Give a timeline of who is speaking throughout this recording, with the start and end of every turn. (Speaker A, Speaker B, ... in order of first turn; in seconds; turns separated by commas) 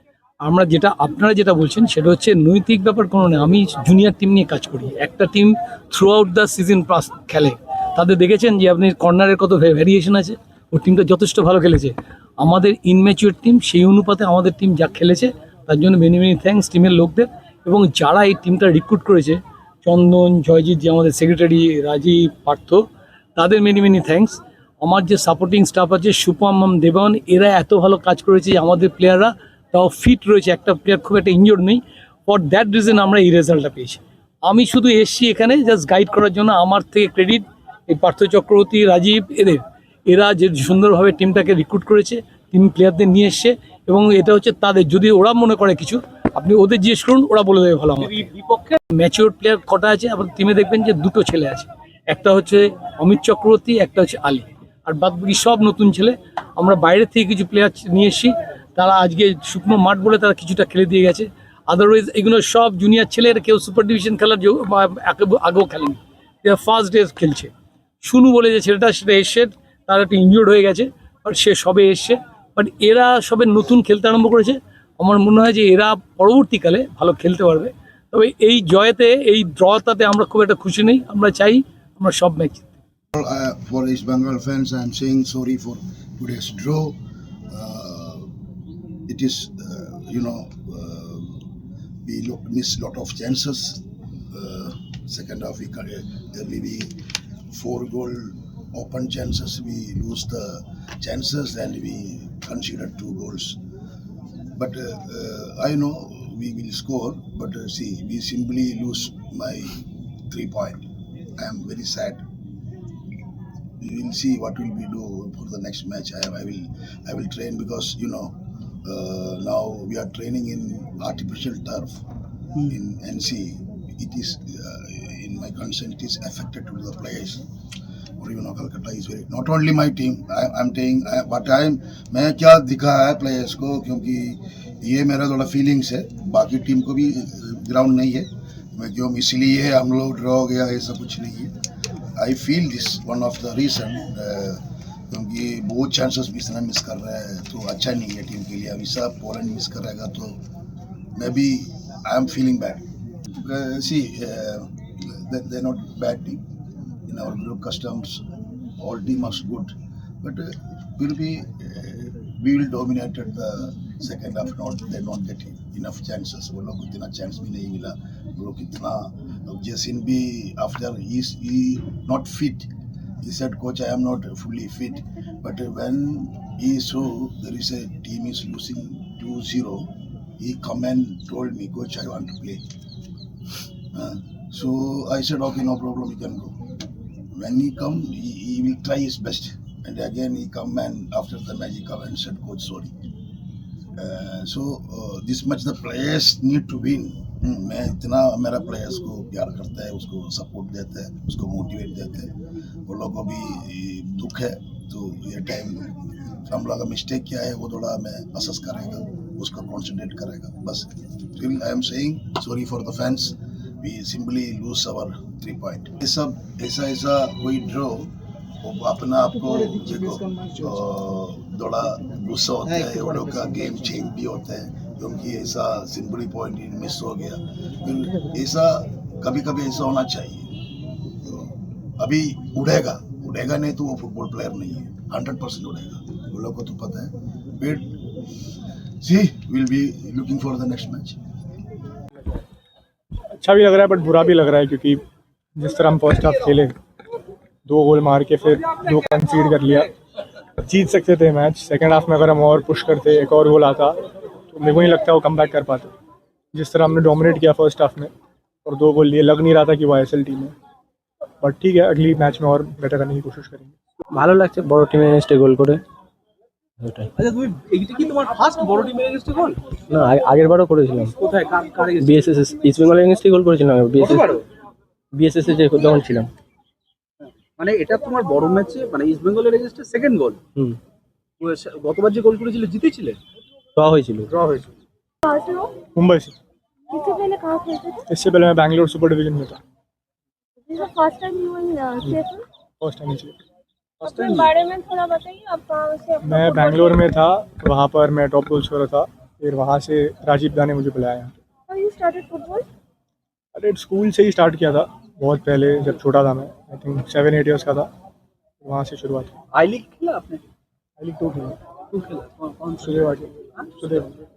Speaker A: 0.4-22.8, Speaker A: 23.4-48.3, Speaker B: 48.4-48.8, Speaker A: 48.9-67.5, Speaker A: 68.0-82.7, Speaker C: 83.1-87.0, Speaker C: 87.5-88.3, Speaker C: 89.1-91.5, Speaker C: 92.0-103.6, Speaker C: 104.6-110.8, Speaker C: 111.4-112.2, Speaker C: 113.8-122.0, Speaker C: 122.6-127.4, Speaker C: 128.2-141.5, Speaker C: 142.2-150.4, Speaker C: 151.2-156.4, Speaker C: 157.1-158.2, Speaker C: 158.8-172.7, Speaker C: 173.2-182.6, Speaker C: 183.9-186.6, Speaker C: 187.3-192.9, Speaker C: 194.0-202.3, Speaker C: 202.9-205.9, Speaker C: 206.5-218.1, Speaker C: 218.6-230.5, Speaker C: 231.2-238.0, Speaker C: 239.0-241.2, Speaker D: 243.4-245.0, Speaker D: 245.6-246.7, Speaker D: 247.7-249.9, Speaker D: 250.6-254.0, Speaker D: 254.5-255.9, Speaker D: 256.5-258.1, Speaker D: 258.6-260.5, Speaker D: 261.4-263.8, Speaker E: 264.1-265.8, Speaker E: 266.8-267.1, Speaker B: 267.2-269.6, Speaker E: 269.9-271.1, Speaker B: 271.2-272.1, Speaker E: 272.0-274.3, Speaker E: 275.1-276.3, Speaker B: 277.6-280.4, Speaker B: 281.4-283.2, Speaker E: 283.8-284.3, Speaker F: 285.3-285.8, Speaker D: 285.9-286.4, Speaker F: 286.9-288.0, Speaker D: 288.1-289.6, Speaker F: 290.7-292.4, Speaker D: 292.8-293.4, Speaker F: 294.0-297.0, Speaker B: 294.0-294.4, Speaker D: 296.2-301.3, Speaker F: 301.7-302.7, Speaker D: 303.6-307.9, Speaker D: 308.6-309.3, Speaker B: 309.5-310.4, Speaker D: 311.0-311.6, Speaker B: 311.9-313.0, Speaker D: 312.8-314.1